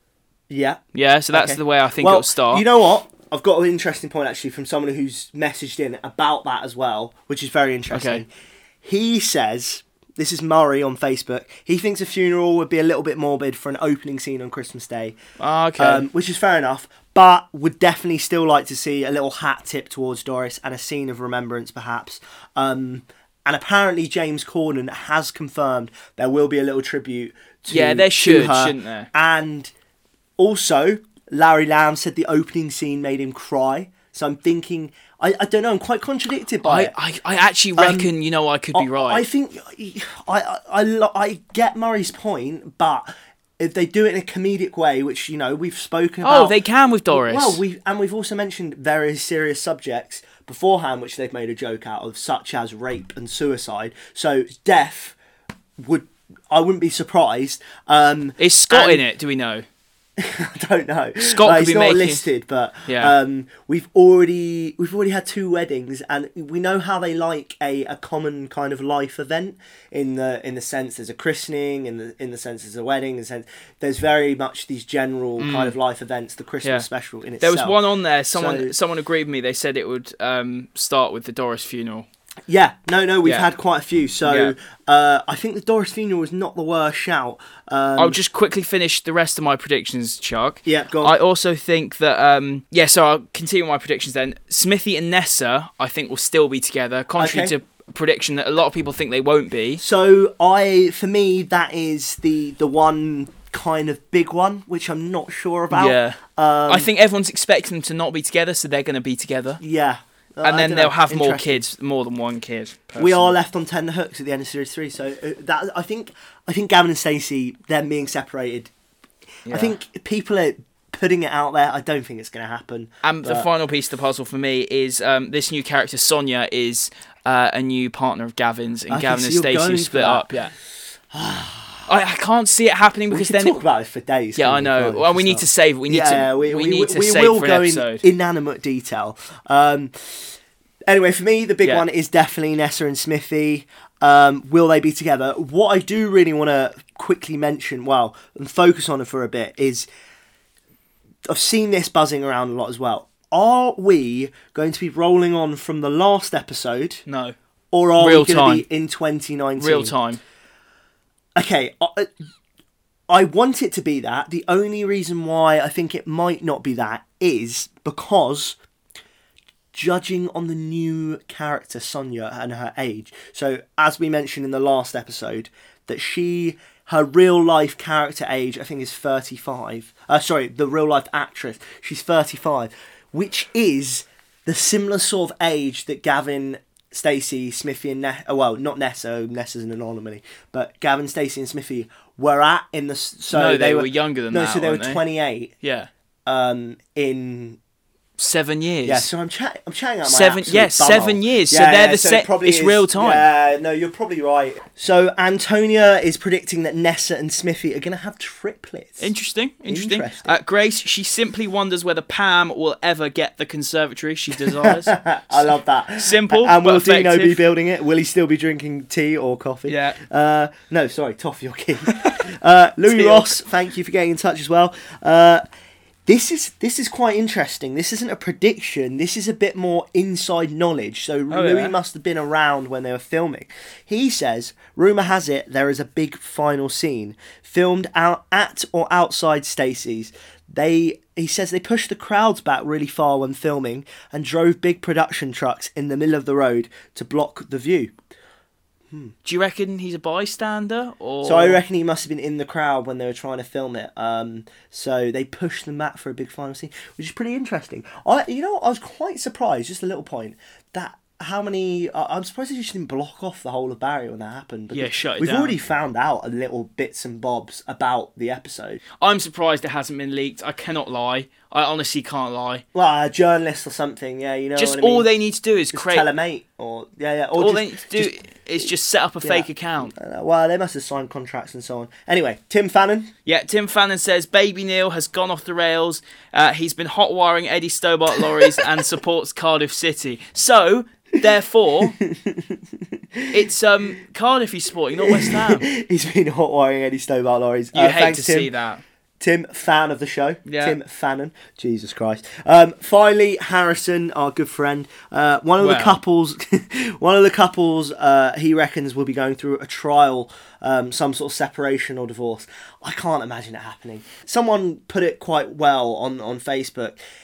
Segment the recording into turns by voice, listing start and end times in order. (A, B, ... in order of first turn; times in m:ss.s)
0:00.5-0:08.3 A
0:00.9-0:02.6 B
0:07.9-0:08.2 B
0:08.8-0:15.2 A
0:15.4-0:16.0 B
0:15.8-0:29.7 A
0:27.7-0:29.1 B
0:30.4-0:36.9 A
0:36.6-0:39.2 B
0:37.8-0:38.1 A
0:38.7-0:46.6 A
0:46.2-0:47.6 B
0:47.1-0:55.1 A
0:55.8-0:59.0 A
0:58.4-0:59.6 B
1:00.2-1:17.8 A
1:01.2-1:02.2 B
1:02.9-1:03.1 B
1:15.4-1:15.8 B
1:16.6-1:16.9 B
1:17.4-1:22.0 B
1:18.3-1:18.7 A
1:22.5-1:28.2 A
1:23.2-1:23.5 B
1:24.2-1:24.5 B
1:28.0-1:39.8 B
1:30.6-1:31.2 A
1:37.2-1:37.5 A
1:39.8-1:46.9 A
1:45.7-1:49.6 B
1:49.6-1:51.6 A
1:50.4-1:53.3 B
1:53.0-1:58.7 A
1:59.4-1:59.8 B
1:59.5-2:03.5 A
2:03.0-2:10.5 B
2:08.9-2:10.2 A
2:11.1-2:11.9 A
2:11.9-2:13.6 B
2:13.1-2:20.3 A
2:14.4-2:18.0 B
2:20.9-2:29.9 A
2:31.2-2:37.0 A
2:37.0-2:37.3 B
2:37.7-2:39.9 A
2:38.0-2:38.6 B
2:39.6-2:40.2 B
2:41.4-2:42.1 A
2:43.1-2:48.6 A
2:49.7-3:15.5 A
3:13.3-3:15.0 B
3:15.6-3:15.9 B
3:16.2-3:17.6 A
3:18.2-3:19.1 B
3:18.8-3:29.1 A
3:20.0-3:23.2 B
3:29.0-3:37.4 B
3:29.6-3:30.3 A
3:34.4-3:45.4 A
3:39.7-3:40.0 B
3:42.8-3:43.4 B
3:46.1-4:07.9 A
3:51.3-3:51.8 B
4:09.2-4:11.6 B
4:11.2-4:28.8 A
4:24.7-4:25.6 B
4:29.0-4:32.6 B
4:32.7-4:35.1 A
4:34.6-4:36.1 B
4:35.7-4:38.2 A
4:37.4-4:39.9 B
4:39.2-4:43.1 A
4:43.2-4:52.0 B
4:52.0-4:53.4 A
4:53.3-4:55.6 B
4:55.0-4:58.5 A
4:57.7-4:58.8 B
4:59.2-5:17.0 A
5:00.4-5:00.8 B
5:05.6-5:06.0 B